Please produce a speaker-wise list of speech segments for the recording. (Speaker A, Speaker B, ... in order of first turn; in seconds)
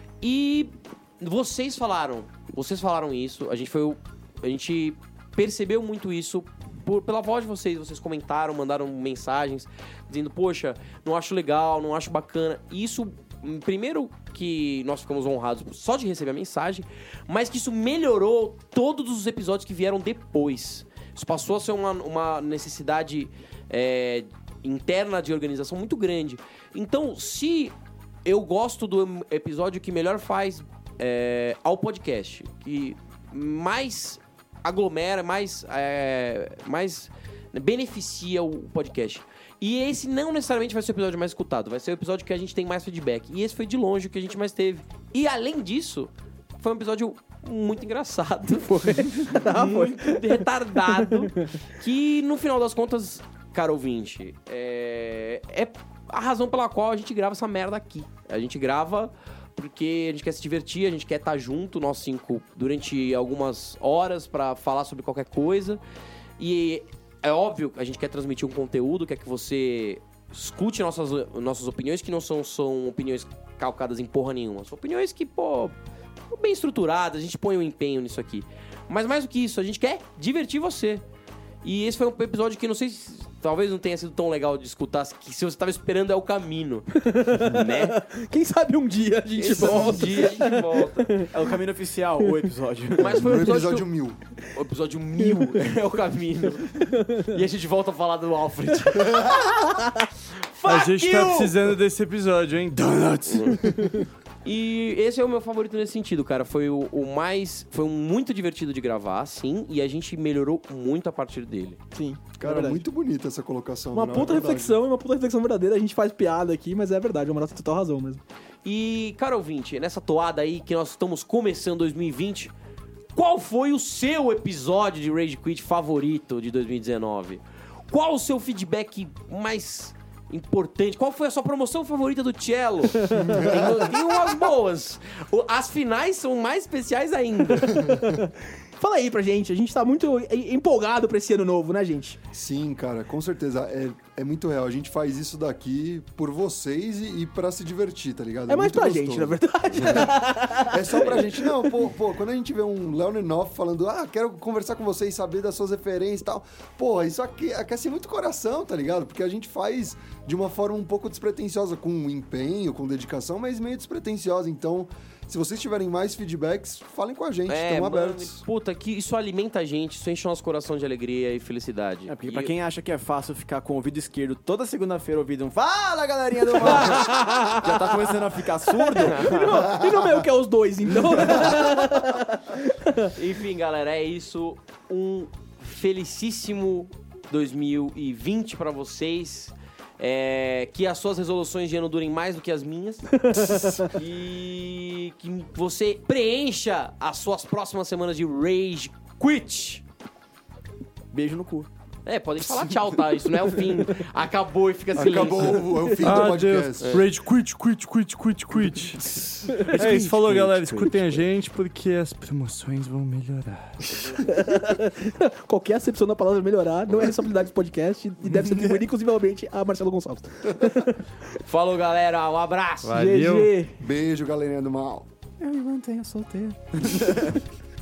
Speaker A: 0.2-27.7, 28.2-65.8, 66.4-75.7, 76.3-81.0, 81.6-88.0, 89.3-91.2, 93.0-93.9, 94.4-99.8, 100.5-101.5, 103.3-103.7, 104.4-111.8, 118.6-122.5, 123.2-138.0, 167.5-172.5, 179.0-179.3, 183.1-199.8, 202.1-207.1, 221.4-222.9
Speaker B: 48.5-51.5, 86.9-91.3, 96.9-97.2, 99.7-100.0, 111.9-112.8, 113.9-118.2, 137.9-142.2, 148.5-151.2, 176.6-177.7, 178.8-183.1, 193.1-193.9, 214.2-221.0, 222.9-223.8
Speaker C: 91.3-93.2, 172.1-179.8, 201.1-201.7, 209.5-211.3, 218.2-218.9, 225.4-227.4
Speaker D: 93.1-94.2, 99.2-99.5, 112.4-114.8, 133.1-134.0, 142.3-168.4, 204.9-206.9, 223.8-225.1
Speaker E: 100.6-104.0, 205.2-214.2, 222.8-223.5